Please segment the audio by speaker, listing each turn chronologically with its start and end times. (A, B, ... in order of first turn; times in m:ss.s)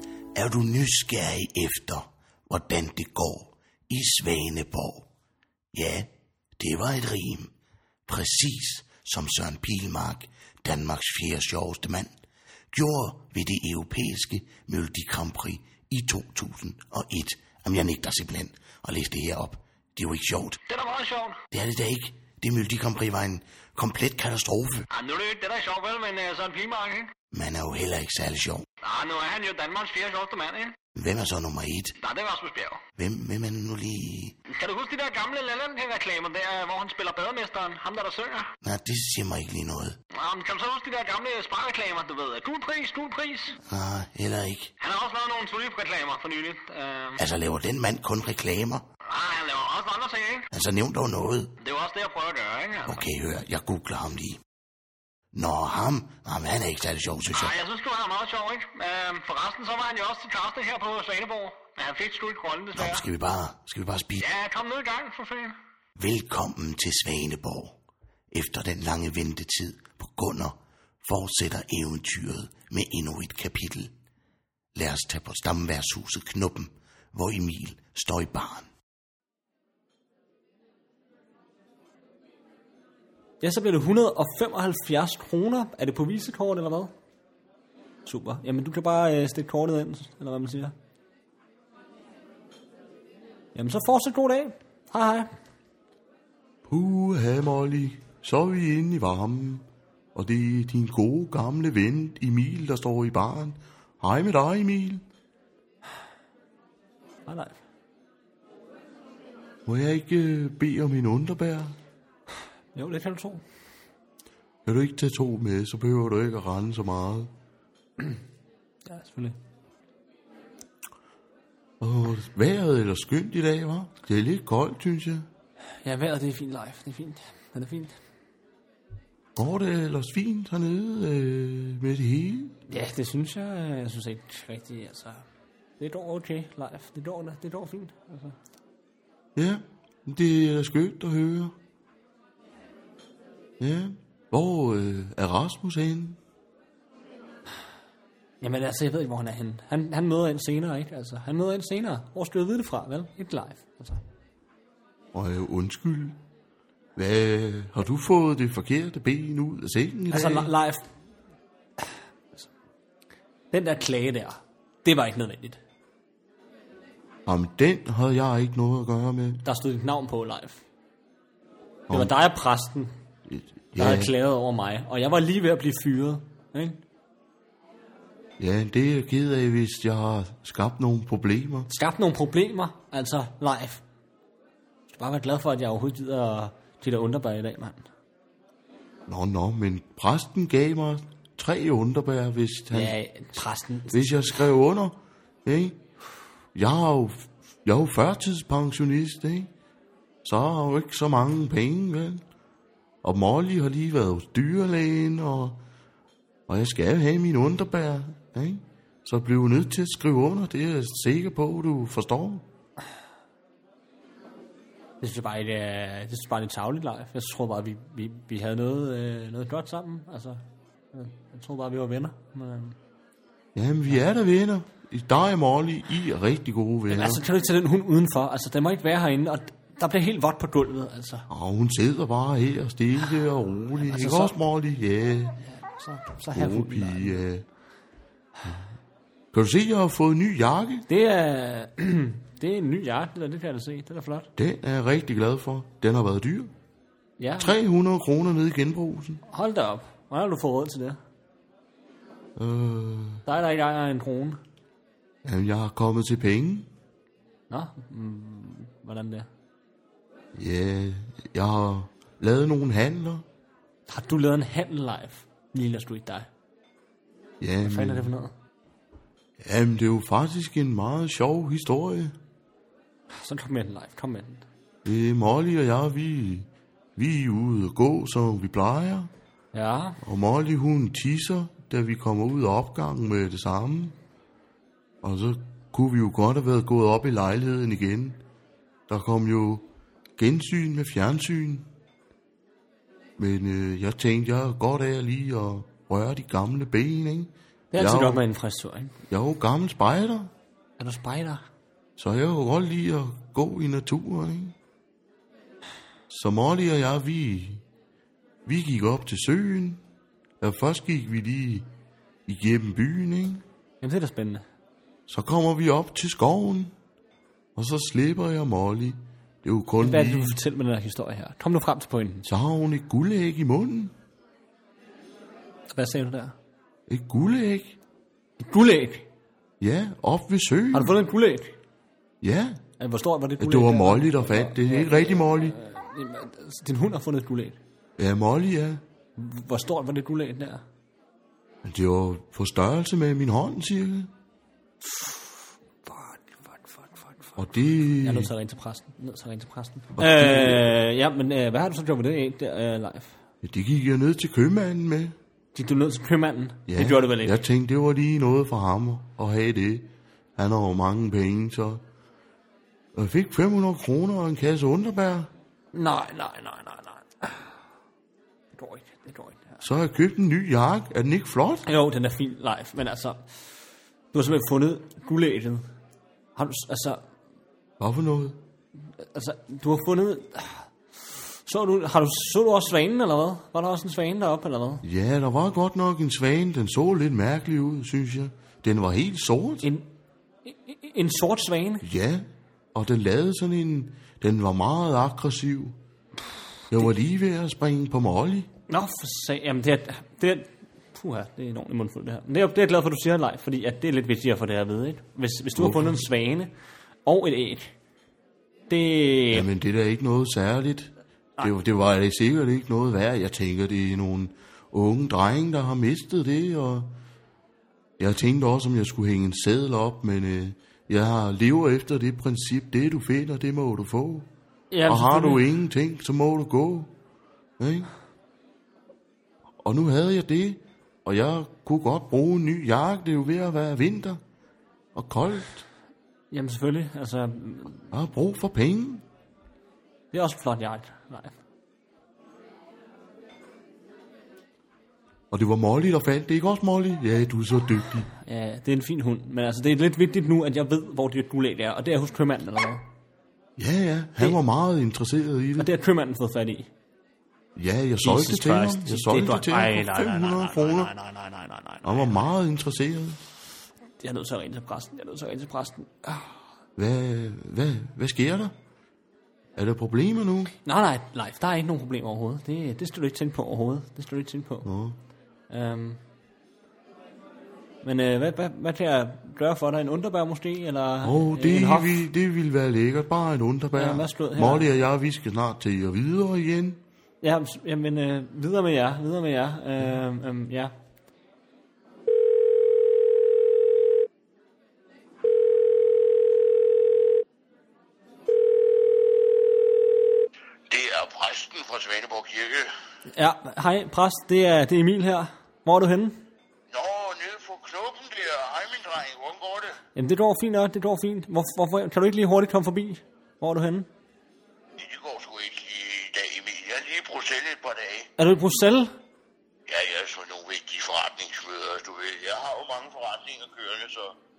0:00.4-0:05.1 A
0:05.7-0:07.5 A
0:08.1-0:12.1 A
0:12.7-0:20.6 A
0:20.7-0:21.4 B
0:21.5-0:24.9 A
0:24.9-0:27.1 B
0:27.3-0:28.6 A
0:28.8-0:30.8 B
0:31.0-0:31.9 A
0:32.0-0:32.8 B
0:33.0-0:34.4 A
0:34.5-0:38.5 B
0:38.6-0:39.9 A
0:40.2-0:43.6 B
0:43.7-0:44.7 A
0:44.8-0:47.2 B
0:47.2-0:48.8 A
0:49.1-0:50.5 B
0:50.5-0:51.5 A
0:51.6-0:53.1 B
0:52.9-0:54.4 A
0:55.3-0:57.5 A
0:57.3-1:03.0 B
1:02.8-1:04.2 A
1:04.2-1:05.6 B
1:06.0-1:07.8 A
1:08.3-1:13.9 A
1:14.8-1:18.7 A
1:23.4-1:26.9 C
1:28.1-1:30.8 C
1:33.6-1:35.3 C
1:36.7-1:45.0 D
1:47.3-1:47.6 C
1:49.7-1:51.8 D
1:52.8-1:53.4 C
1:54.7-1:57.3 D
1:58.9-1:59.4 C
2:01.8-2:05.2 D
2:05.8-2:08.0 C
2:09.4-2:12.6 D
2:12.7-2:15.2 C
2:15.8-2:18.4 C
2:19.4-2:21.5 D
2:23.6-2:26.2 D
2:28.4-2:34.0 C
2:35.1-2:36.2 D
2:37.0-2:40.5 D
2:40.1-2:40.9 C
2:43.5-2:45.6 C
2:47.3-2:49.4 D
2:49.4-2:50.6 C
2:51.9-2:52.9 C
2:53.3-2:54.1 D
2:53.8-2:56.8 C
2:58.4-3:01.7 D
3:01.7-3:03.8 C
3:04.9-3:07.9 C
3:09.1-3:13.0 D
3:12.7-3:14.3 C
3:13.9-3:15.8 D
3:16.6-3:19.5 D
3:20.2-3:22.2 D
3:23.0-3:25.6 D
3:26.5-3:32.4 D
3:35.0-3:40.4 C
3:40.9-3:42.8 C
3:43.6-3:47.2 D
3:46.9-3:51.3 C
3:51.3-3:55.4 D
3:53.8-3:54.4 C
3:55.4-3:57.2 C
3:56.3-3:57.4 D
3:59.3-4:00.8 D
4:00.9-4:04.3 C
4:04.4-4:06.5 D
4:07.2-4:07.6 C
4:07.4-4:09.2 D
4:09.3-4:11.0 C
4:12.4-4:13.2 D
4:13.3-4:14.4 C
4:15.2-4:16.7 D
4:17.5-4:19.3 C
4:20.4-4:23.2 D
4:23.9-4:26.3 C
4:27.4-4:28.1 D
4:27.6-4:28.3 C
4:29.4-4:32.2 D
4:33.1-4:34.4 C
4:34.8-4:39.1 D
4:39.5-4:40.0 C
4:40.0-4:44.0 D
4:45.0-4:48.2 D
4:48.9-4:49.7 D
4:50.2-4:51.6 D
4:53.2-4:58.2 D
4:57.7-4:59.0 C
4:59.1-5:00.3 D
5:00.8-5:01.4 C
5:02.0-5:04.6 D
5:06.1-5:07.6 D
5:08.5-5:09.8 D
5:10.4-5:11.7 D
5:12.3-5:13.4 D
5:13.8-5:14.4 C
5:15.1-5:16.7 D
5:17.6-5:20.4 D
5:19.8-5:22.3 C
5:22.3-5:23.9 D
5:25.7-5:26.4 C
5:26.9-5:27.8 D
5:28.4-5:29.1 C
5:29.6-5:31.0 D
5:30.7-5:31.6 C
5:32.2-5:32.6 D
5:32.8-5:37.6 C
5:33.4-5:35.6 D
5:38.0-5:38.8 D
5:39.2-5:40.6 C
5:41.6-5:44.1 D
5:45.8-5:47.4 C
5:47.4-5:48.3 D
5:48.0-5:53.2 C
5:50.0-5:50.7 D
5:53.4-5:55.2 D
5:55.5-5:57.4 C
5:56.7-6:01.8 D
6:03.0-6:05.3 D
6:05.7-6:07.5 C
6:08.5-6:09.6 C
6:09.6-6:11.6 D
6:11.6-6:13.2 C
6:14.1-6:15.7 C
6:16.4-6:17.0 C
6:17.8-6:18.4 D
6:19.0-6:24.8 C
6:24.8-6:29.7 D
6:29.6-6:29.9 C
6:30.4-6:31.9 C
6:31.8-6:35.8 D
6:36.7-6:38.5 D
6:38.7-6:46.5 C
6:45.6-6:46.0 D
6:47.0-6:47.7 C
6:48.7-6:49.5 C
6:49.3-6:56.9 D
6:58.0-7:04.3 D
7:04.7-7:05.5 C
7:04.9-7:06.9 D
7:07.6-7:07.9 D
7:09.6-7:14.2 D
7:15.0-7:15.6 D
7:16.3-7:17.9 C
7:17.9-7:19.0 D
7:20.1-7:21.4 C
7:25.3-7:28.1 D
7:28.2-7:32.8 C
7:33.6-7:35.7 D
7:35.6-7:36.7 C
7:37.6-7:40.9 D
7:38.0-7:42.3 C
7:41.8-7:43.2 D
7:44.0-7:46.4 C
7:46.8-7:48.5 D
7:49.6-7:50.5 D
7:50.6-7:54.7 C
7:54.6-7:55.0 D
7:55.5-7:56.0 C
7:57.8-8:02.1 C
8:01.0-8:06.8 D
8:03.8-8:04.7 C
8:07.2-8:10.7 C
8:20.7-8:22.7 E
8:23.1-8:26.2 C
8:26.7-8:29.8 E
8:30.0-8:33.9 C
8:34.8-8:38.1 E
8:38.2-8:38.9 C
8:39.7-8:44.2 E